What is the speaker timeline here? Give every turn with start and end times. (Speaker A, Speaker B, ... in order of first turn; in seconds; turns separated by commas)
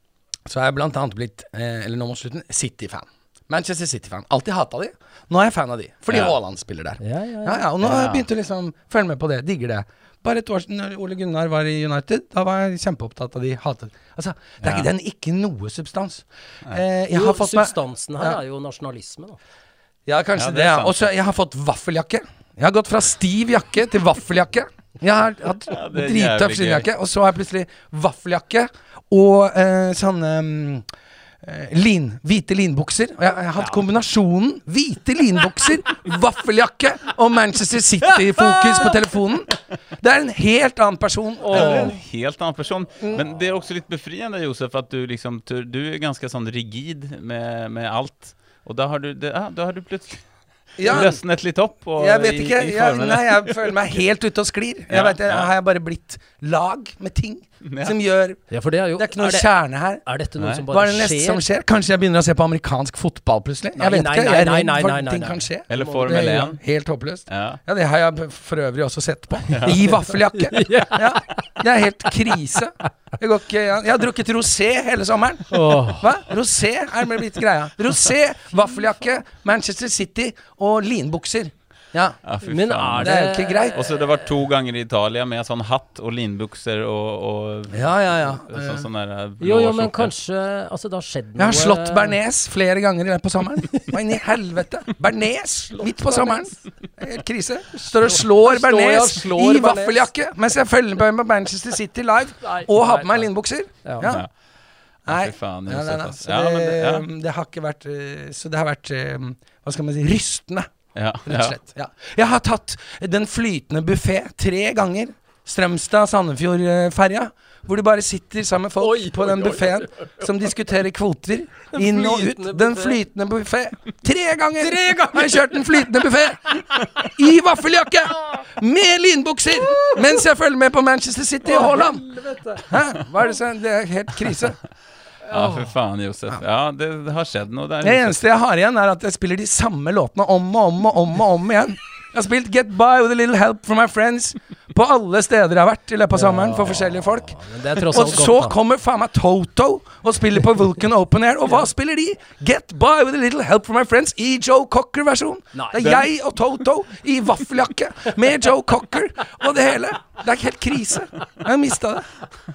Speaker A: 0.5-18.4, Speaker B: 6.1-6.3, Speaker C: 7.0-7.7, Speaker B: 7.8-8.2, Speaker B: 14.6-14.9, Speaker C: 17.1-19.4, Speaker A: 20.1-30.8, Speaker B: 20.4-21.0, Speaker B: 25.7-26.9, Speaker A: 31.4-42.0, Speaker C: 41.4-42.0, Speaker B: 41.5-50.2, Speaker A: 43.0-43.2, Speaker B: 50.8-53.8, Speaker A: 50.8-51.2, Speaker A: 52.0-60.0, Speaker B: 54.9-55.5, Speaker B: 57.6-58.0, Speaker C: 58.5-59.5, Speaker C: 60.0-61.4, Speaker A: 60.7-82.2, Speaker C: 63.8-66.4, Speaker B: 65.7-66.6, Speaker B: 67.3-67.6, Speaker B: 69.5-69.8, Speaker C: 69.6-71.4, Speaker C: 75.5-76.2, Speaker B: 82.2-90.1, Speaker C: 82.4-84.0, Speaker A: 83.0-83.8, Speaker A: 87.7-88.9, Speaker C: 89.4-92.2, Speaker A: 91.4-104.3, Speaker C: 95.7-96.6, Speaker C: 97.8-100.1, Speaker C: 102.4-103.3, Speaker C: 103.8-104.1, Speaker B: 104.0-104.3, Speaker A: 105.0-110.7, Speaker B: 105.1-107.0, Speaker B: 110.9-111.6, Speaker A: 111.2-126.5, Speaker C: 118.8-120.2, Speaker C: 121.7-123.0, Speaker C: 124.6-125.9, Speaker A: 127.0-132.0, Speaker C: 129.6-130.2, Speaker C: 131.4-132.7, Speaker A: 132.6-134.6, Speaker C: 135.3-135.6, Speaker B: 135.3-138.2, Speaker A: 137.8-162.1, Speaker C: 146.1-148.6, Speaker C: 155.5-156.0